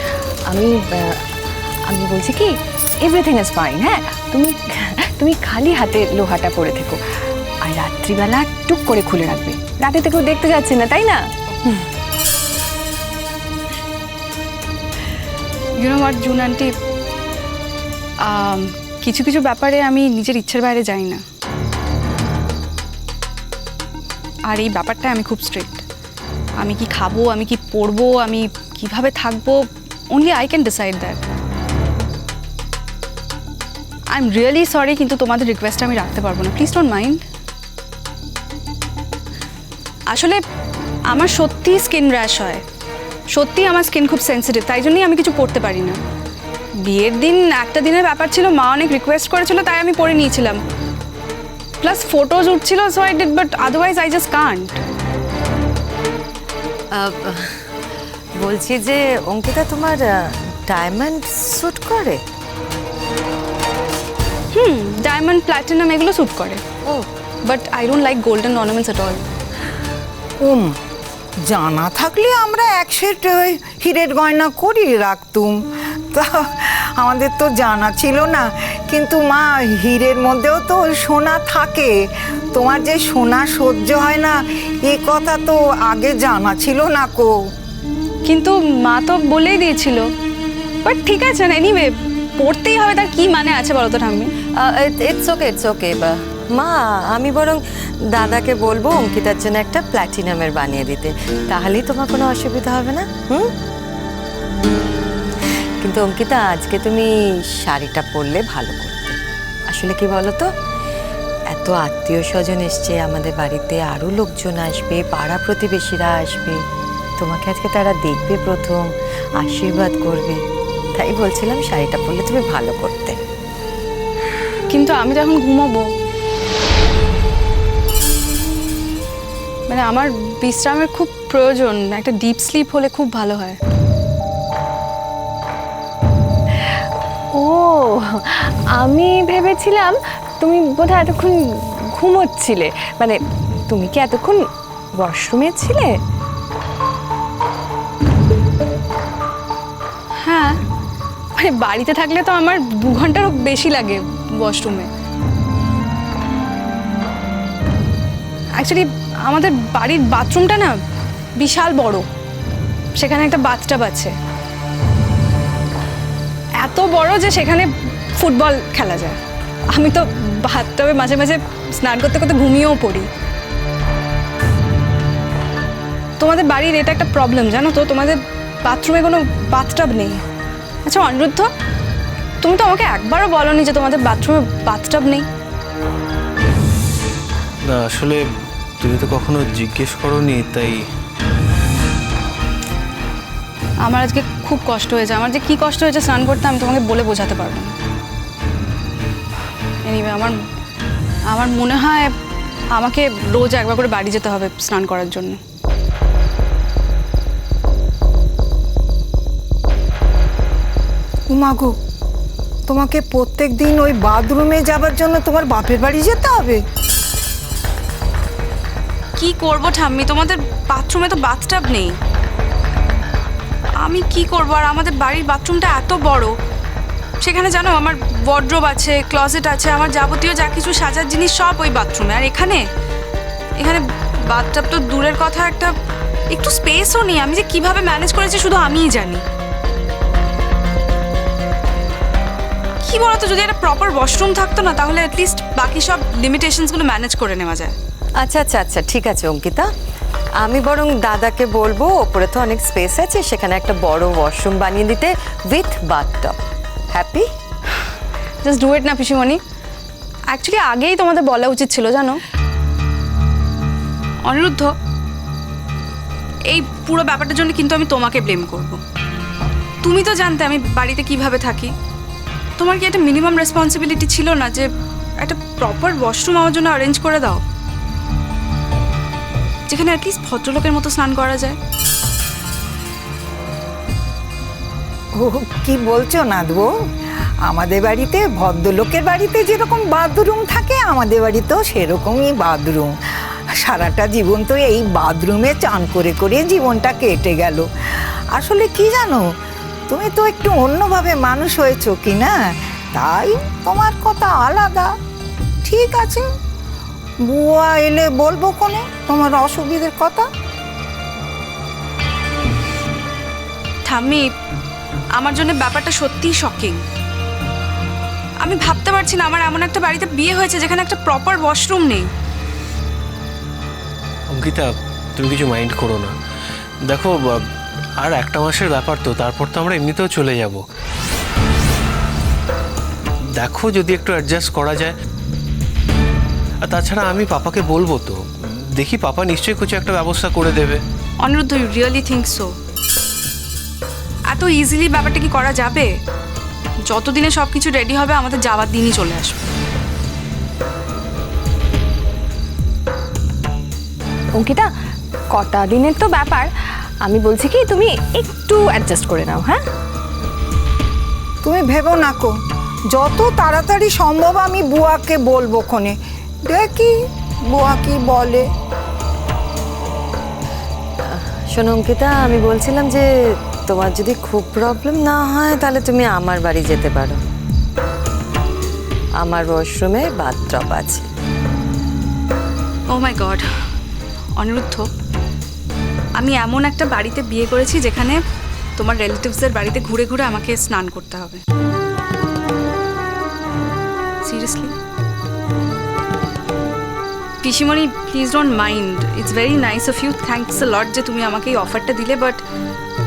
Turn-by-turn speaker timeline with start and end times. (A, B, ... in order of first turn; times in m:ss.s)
0:00.5-0:01.2 A
0:01.8-0:07.0 A
0:07.6-0:11.8 A
0:15.8-0:16.7 B
0:18.2-0:21.2 B
0:24.4-0:25.8 B
0:26.6-0:31.2 B
0:34.1-0:37.2 B
0:40.1-0:40.4 B
0:41.1-0:42.6 B
0:43.3-0:46.0 B
0:46.8-0:50.6 B
0:51.8-0:54.8 B
0:56.9-0:57.6 C
0:58.4-1:02.2 C
1:04.5-1:06.6 B
1:07.4-1:09.2 B
1:10.4-1:10.7 D
1:11.4-1:15.6 D
1:16.1-1:21.9 D
1:22.5-1:27.3 D
1:28.2-1:30.0 B
1:30.8-1:34.3 B
1:34.6-1:37.6 C
1:38.1-1:43.5 C
1:45.8-1:49.2 C
1:49.7-1:50.5 C
1:51.5-1:56.6 C
1:57.2-2:00.4 C
2:01.0-2:03.2 C
2:04.7-2:05.9 B
2:09.7-2:13.6 B
2:17.3-2:26.0 A
2:30.2-2:30.6 B
2:31.4-2:34.9 B
2:38.6-2:40.8 B
2:41.4-2:42.1 B
2:43.0-2:44.1 B
2:46.6-2:49.2 B
2:49.7-2:53.1 B
2:56.2-3:00.2 B
3:00.8-3:01.5 B
3:02.4-3:05.3 B
3:07.7-3:08.2 E
3:08.8-3:10.8 E
3:13.8-3:17.8 B
3:19.8-3:20.4 B
3:21.3-3:22.1 B
3:22.7-3:25.4 B
3:31.3-3:31.7 D
3:32.7-3:36.6 D
3:39.2-3:42.0 B
3:43.8-3:46.4 B
3:47.2-3:52.6 B
3:53.6-3:55.7 B
3:56.3-3:59.2 B
4:02.8-4:07.7 B
4:08.2-4:09.7 C
4:10.4-4:16.4 C
4:16.9-4:17.2 C
4:18.4-4:19.4 B
4:20.3-4:22.2 B
4:24.2-4:24.7 B
4:26.5-4:28.8 B
4:29.8-4:31.7 B
4:32.6-4:34.7 B
4:35.2-4:37.4 B
4:39.7-4:41.6 B
4:45.2-4:46.7 D
4:47.5-4:52.9 D
4:53.6-4:57.6 D
4:58.3-4:59.2 D
4:59.9-5:02.4 D
5:02.9-5:04.9 D
5:05.6-5:06.2 D
5:07.2-5:10.2 D
5:13.9-5:14.3 B
5:15.2-5:16.8 B
5:18.4-5:22.1 B
5:24.3-5:26.1 E
5:26.9-5:27.5 E
5:28.0-5:30.6 E
5:33.4-5:34.9 E
5:36.6-5:38.2 E
5:38.8-5:40.8 E
5:41.2-5:42.5 B
5:44.3-5:45.9 B
5:46.9-5:49.4 B
5:54.4-5:54.7 A
5:55.3-5:56.5 A
5:57.0-5:59.6 A
6:01.4-6:02.3 D
6:02.9-6:06.0 D
6:06.5-6:06.9 D
6:07.5-6:08.5 D
6:11.0-6:17.2 C
6:19.2-6:21.1 C
6:22.9-6:23.5 B
6:24.4-6:24.9 B
6:26.2-6:28.2 B
6:28.8-6:31.4 B
6:34.2-6:34.7 B
6:37.4-6:42.4 B